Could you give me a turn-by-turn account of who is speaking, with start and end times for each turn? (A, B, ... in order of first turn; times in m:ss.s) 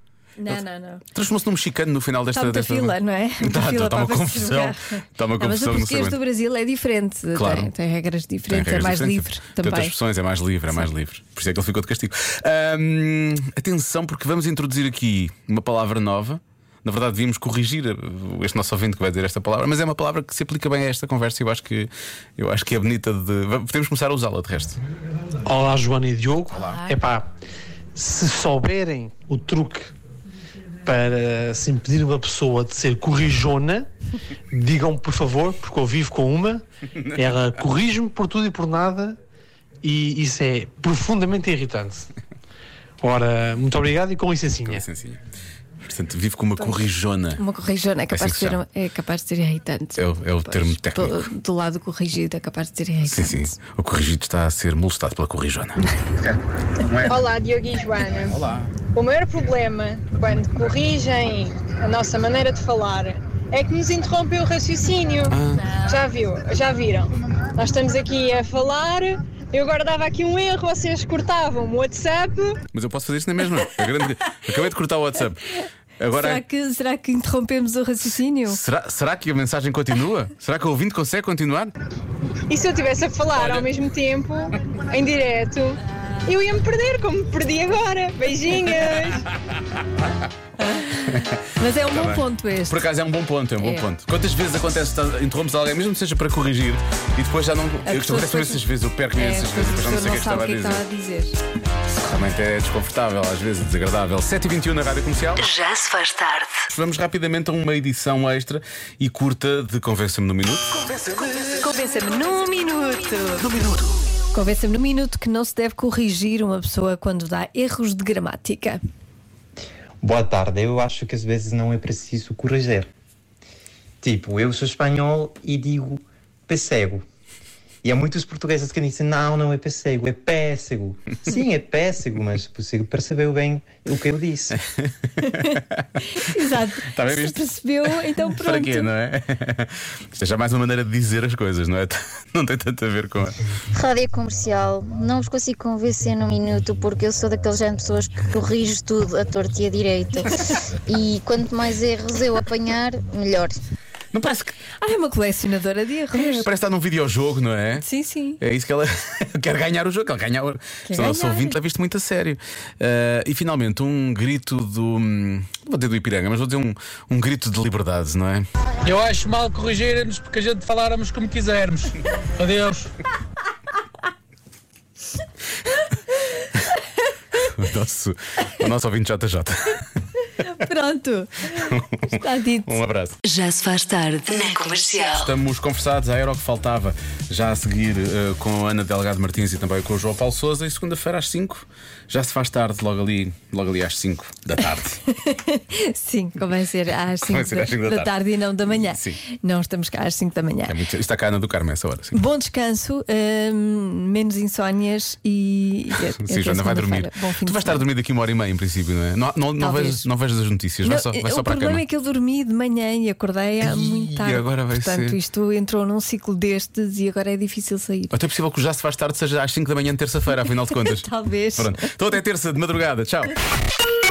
0:00.4-0:01.0 A
0:01.1-0:06.2 B
0:02.3-0:09.9 A
0:07.3-0:07.7 B
0:08.5-0:24.8 B
0:25.4-0:27.3 C
0:26.5-0:26.8 B
0:28.0-0:29.9 C
0:30.8-0:33.9 C
0:34.5-0:36.6 C
0:36.9-0:37.6 B
0:37.2-0:39.2 C
0:39.8-0:42.1 C
0:43.0-0:44.8 C
0:44.5-0:45.2 B
0:45.8-0:47.4 B
0:47.4-0:53.5 A
0:48.1-0:48.6 B
0:50.0-0:51.3 B
0:53.1-0:56.3 B
0:56.8-0:57.2 B
0:57.0-0:58.4 D
0:58.3-0:58.8 B
0:58.9-1:12.6 D
1:05.3-1:05.8 B
1:12.7-1:16.4 B
1:16.1-1:18.6 A
1:18.5-1:21.7 B
1:22.5-1:29.2 D
1:23.4-1:23.7 B
1:25.9-1:26.3 A
1:28.6-1:29.1 B
1:30.6-1:32.8 A
1:31.9-1:40.8 B
1:33.6-1:33.8 A
1:37.8-1:41.4 A
1:42.0-1:45.5 B
1:45.4-1:46.5 E
1:46.7-1:50.8 B
1:51.6-1:53.5 A
1:54.3-1:58.8 A
2:00.0-2:02.9 F
2:04.0-2:07.0 F
2:07.8-2:14.6 F
2:14.8-2:16.2 B
2:16.2-2:18.9 A
2:16.9-2:17.4 B
2:18.3-2:23.4 B
2:23.7-2:30.2 G
2:30.8-2:33.6 G
2:34.1-2:34.5 B
2:34.8-2:36.5 A
2:36.1-2:37.8 B
2:37.8-2:38.4 A
2:38.4-2:48.4 B
2:40.9-2:41.5 A
2:48.8-2:51.9 H
2:52.4-2:52.9 H
2:57.4-2:59.8 B
3:00.5-3:01.5 A
3:01.6-3:02.2 B
3:02.1-3:02.7 A
3:02.7-3:03.2 B
3:03.2-3:05.3 E
3:04.8-3:15.0 B
3:15.1-3:20.8 A
3:17.2-3:19.2 B
3:20.6-3:22.2 B
3:22.1-3:27.8 A
3:26.2-3:31.8 B
3:29.6-3:30.0 A
3:30.8-3:38.1 A
3:33.6-3:35.2 B
3:38.1-3:43.3 B
3:41.0-3:41.7 A